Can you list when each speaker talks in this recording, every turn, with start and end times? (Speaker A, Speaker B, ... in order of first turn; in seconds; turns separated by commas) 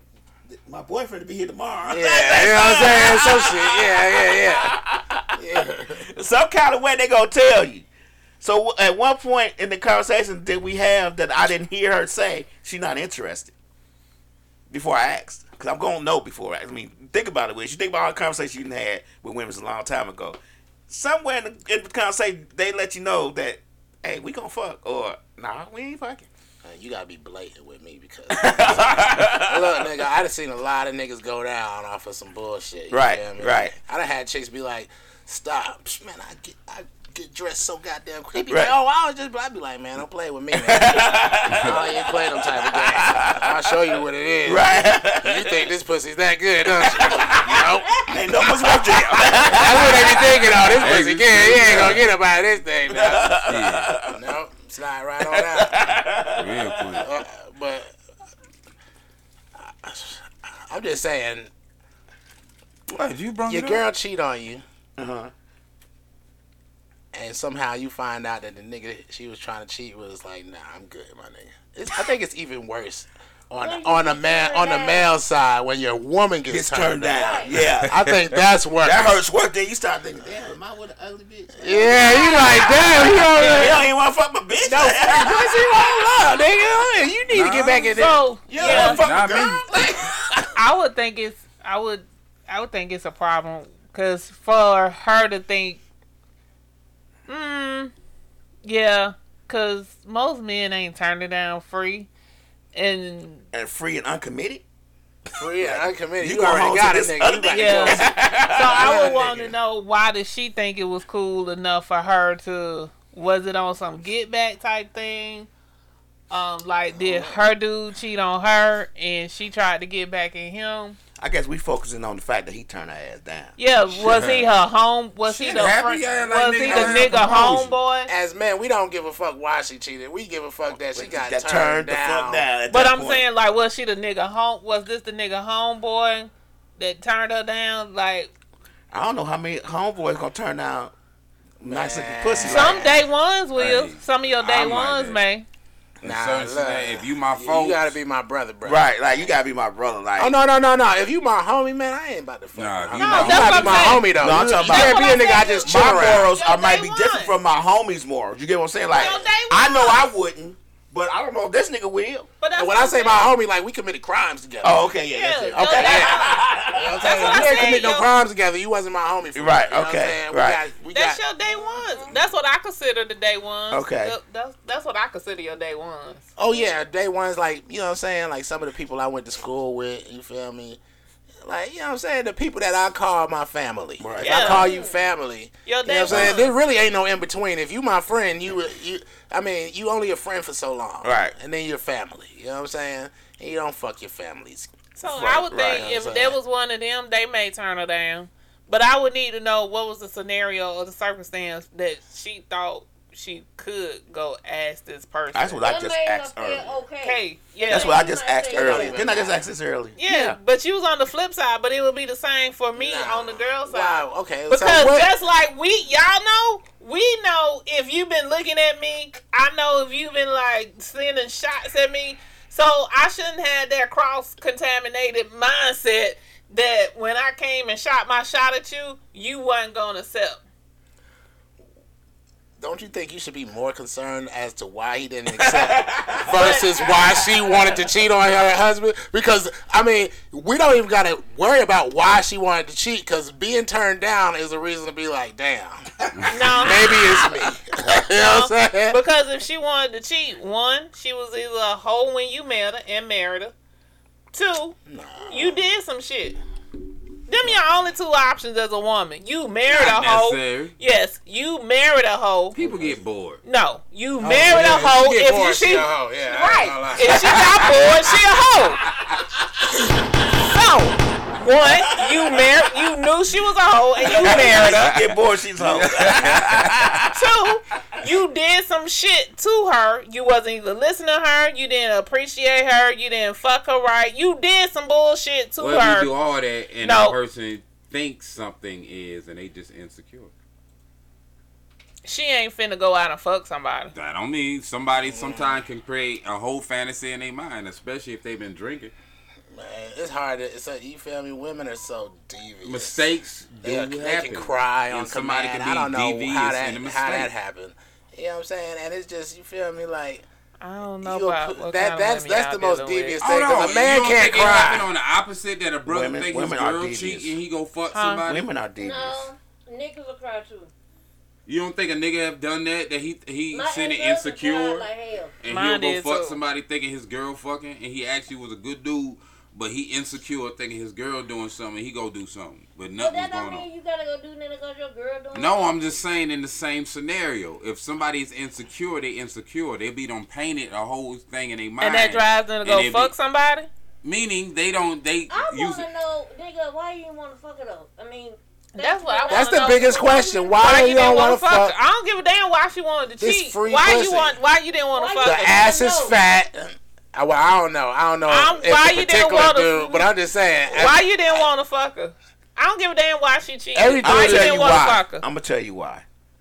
Speaker A: 0.5-5.4, Speaker B: 1.9-4.8, Speaker B: 5.4-6.0, Speaker A: 6.0-7.9, Speaker A: 8.4-13.5, Speaker A: 14.7-26.3, Speaker B: 26.6-53.5, Speaker A: 28.3-29.9, Speaker A: 32.9-33.7, Speaker A: 38.5-38.8, Speaker A: 40.5-43.8, Speaker C: 41.5-41.8, Speaker A: 44.4-45.7, Speaker A: 46.7-50.7, Speaker C: 50.8-52.1, Speaker A: 51.5-52.0, Speaker A: 52.9-54.2, Speaker C: 53.5-53.9, Speaker B: 54.1-56.0, Speaker A: 55.2-57.1, Speaker C: 56.4-57.1, Speaker B: 57.0-58.0, Speaker B: 59.6-61.5, Speaker C: 62.9-63.9, Speaker B: 63.5-64.6, Speaker A: 65.0-65.3, Speaker B: 67.1-79.2, Speaker D: 73.6-75.1, Speaker A: 76.5-78.0, Speaker D: 77.1-77.6, Speaker A: 78.8-82.4, Speaker B: 81.6-83.9, Speaker D: 81.7-82.9, Speaker E: 82.0-83.8, Speaker A: 83.4-86.1, Speaker B: 84.6-89.1, Speaker C: 87.3-88.1, Speaker E: 88.0-89.0, Speaker A: 88.5-90.1, Speaker C: 88.6-89.6, Speaker E: 90.5-95.8, Speaker E: 97.3-97.9, Speaker E: 98.6-102.1, Speaker E: 102.7-103.4, Speaker A: 103.5-104.6, Speaker B: 105.3-109.5, Speaker A: 105.5-109.2, Speaker E: 107.5-115.5, Speaker E: 116.3-121.0, Speaker A: 121.2-123.5, Speaker E: 123.6-128.1, Speaker C: 124.0-124.5, Speaker C: 125.3-127.8, Speaker B: 126.6-132.5, Speaker A: 130.9-133.2, Speaker E: 132.7-138.3, Speaker A: 138.9-140.9, Speaker A: 141.6-143.0, Speaker B: 141.6-143.0, Speaker E: 142.4-145.5, Speaker C: 143.6-145.2, Speaker C: 146.0-148.0, Speaker B: 146.0-148.9, Speaker A: 148.6-150.3, Speaker B: 150.2-156.3, Speaker C: 152.6-154.0, Speaker E: 153.0-157.4, Speaker A: 154.1-162.3, Speaker E: 158.9-160.1, Speaker E: 162.4-163.3, Speaker B: 162.6-165.0, Speaker A: 164.6-167.6, Speaker E: 165.1-166.4, Speaker B: 165.5-171.2, Speaker E: 167.0-168.1, Speaker A: 169.3-170.7, Speaker E: 170.9-176.3, Speaker D: 171.5-172.2, Speaker A: 173.7-174.2, Speaker B: 176.4-180.8, Speaker B: 181.4-194.7, Speaker A: 184.0-184.7, Speaker E: 184.2-184.8, Speaker D: 184.5-185.1, Speaker E: 185.7-186.5, Speaker A: 186.1-186.4, Speaker A: 191.0-191.3, Speaker E: 195.0-205.6, Speaker A: 195.0-195.9, Speaker B: 195.6-196.4, Speaker A: 205.3-206.8, Speaker D: 205.6-209.4, Speaker E: 207.0-208.0, Speaker A: 207.7-210.4, Speaker B: 208.5-209.4, Speaker E: 210.0-230.4, Speaker B: 212.8-215.1, Speaker B: 232.6-249.0, Speaker A: 235.3-236.9, Speaker E: 236.3-237.2, Speaker C: 246.2-246.7, Speaker E: 246.3-247.1, Speaker E: 248.1-253.5, Speaker E: 254.3-254.8, Speaker B: 254.9-255.6, Speaker E: 255.3-256.4, Speaker E: 257.3-262.6, Speaker C: 259.7-260.7, Speaker C: 262.6-263.4, Speaker B: 262.6-263.0, Speaker E: 263.4-268.8, Speaker B: 264.2-267.7, Speaker E: 270.4-274.9, Speaker A: 271.9-272.4, Speaker A: 274.0-277.3, Speaker C: 274.2-276.8, Speaker E: 277.1-286.1, Speaker C: 285.6-290.3, Speaker E: 286.8-287.2, Speaker E: 292.0-293.9, Speaker C: 293.9-298.9, Speaker B: 295.0-295.6, Speaker B: 299.5-303.0, Speaker C: 302.6-307.3, Speaker B: 303.6-310.2, Speaker E: 310.6-313.7, Speaker B: 311.0-314.9, Speaker C: 313.2-318.5, Speaker A: 315.9-317.4, Speaker E: 317.9-318.2, Speaker A: 318.3-319.3, Speaker D: 318.8-320.7, Speaker C: 321.5-324.9, Speaker D: 323.5-325.4, Speaker C: 325.4-333.7, Speaker E: 325.5-326.4, Speaker D: 333.0-336.0, Speaker C: 335.3-343.1, Speaker E: 341.8-343.7, Speaker C: 344.0-345.9, Speaker D: 345.3-350.9, Speaker E: 348.8-350.0, Speaker B: 349.3-351.8, Speaker E: 350.6-355.6, Speaker B: 353.2-354.4, Speaker D: 354.9-356.2, Speaker B: 355.2-361.1, Speaker E: 358.3-360.1, Speaker E: 360.7-365.2, Speaker B: 363.8-365.0, Speaker A: 364.0-366.1